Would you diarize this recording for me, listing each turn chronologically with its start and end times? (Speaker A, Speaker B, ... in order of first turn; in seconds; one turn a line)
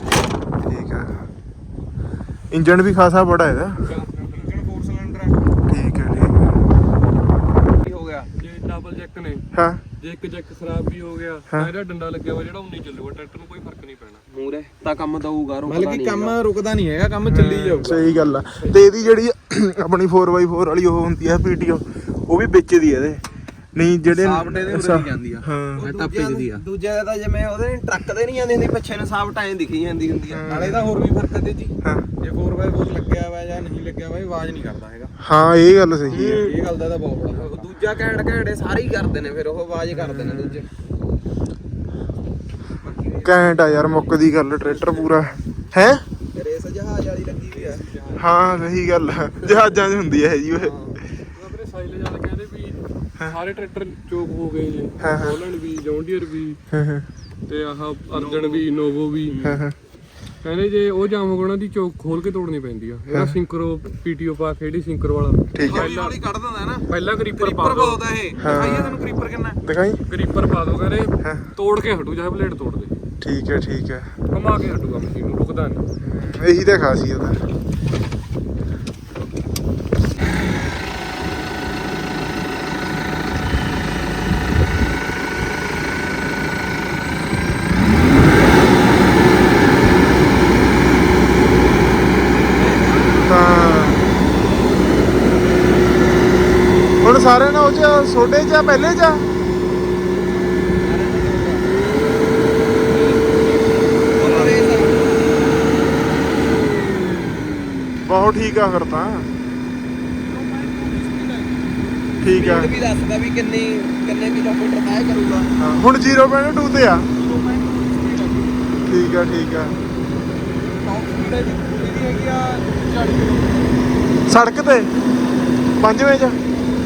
Speaker A: 0.6-1.2
Speaker A: 2.5-3.8
Speaker B: 3.9-4.6
Speaker C: 4.1-5.4
Speaker A: 5.7-6.7
Speaker C: 7.8-8.3
Speaker B: 8.3-9.4
Speaker A: 9.5-9.8
Speaker B: 10.0-14.2
Speaker D: 14.3-16.4
Speaker C: 15.7-18.1
Speaker A: 17.3-23.2
Speaker B: 18.1-19.1
Speaker A: 23.8-25.8
Speaker C: 24.1-26.6
Speaker D: 25.8-30.5
Speaker A: 30.3-31.0
Speaker C: 30.5-35.1
Speaker A: 35.2-36.5
Speaker C: 36.0-37.7
Speaker D: 36.1-36.6
Speaker D: 37.3-40.6
Speaker A: 39.9-40.6
Speaker C: 42.8-44.0
Speaker A: 43.2-46.0
Speaker C: 44.7-45.2
Speaker D: 46.4-47.9
Speaker C: 47.5-48.7
Speaker A: 48.2-50.8
Speaker D: 50.6-51.0
Speaker B: 51.4-56.6
Speaker A: 55.0-55.4
Speaker A: 56.7-57.1
Speaker B: 57.5-59.4
Speaker C: 58.1-58.7
Speaker C: 59.3-59.6
Speaker A: 59.4-59.8
Speaker B: 60.4-66.2
Speaker A: 63.1-63.4
Speaker A: 65.5-65.9
Speaker C: 65.6-69.6
Speaker B: 66.9-68.2
Speaker A: 68.4-69.1
Speaker A: 69.6-70.0
Speaker B: 70.1-73.0
Speaker A: 73.2-74.1
Speaker B: 74.3-75.9
Speaker A: 76.0-77.4
Speaker C: 92.5-93.3
Speaker D: 92.6-93.1
Speaker A: 93.3-94.1
Speaker A: 97.0-99.3
Speaker C: 100.7-101.8
Speaker B: 102.9-103.7
Speaker D: 104.2-105.7
Speaker A: 104.2-104.5
Speaker A: 108.1-109.3
Speaker C: 110.2-111.9
Speaker A: 112.2-112.7
Speaker D: 112.4-115.5
Speaker A: 115.6-117.1
Speaker C: 117.2-118.8
Speaker A: 118.8-119.8
Speaker C: 120.6-123.8
Speaker A: 124.3-124.9
Speaker C: 125.2-125.6
Speaker A: 125.8-126.4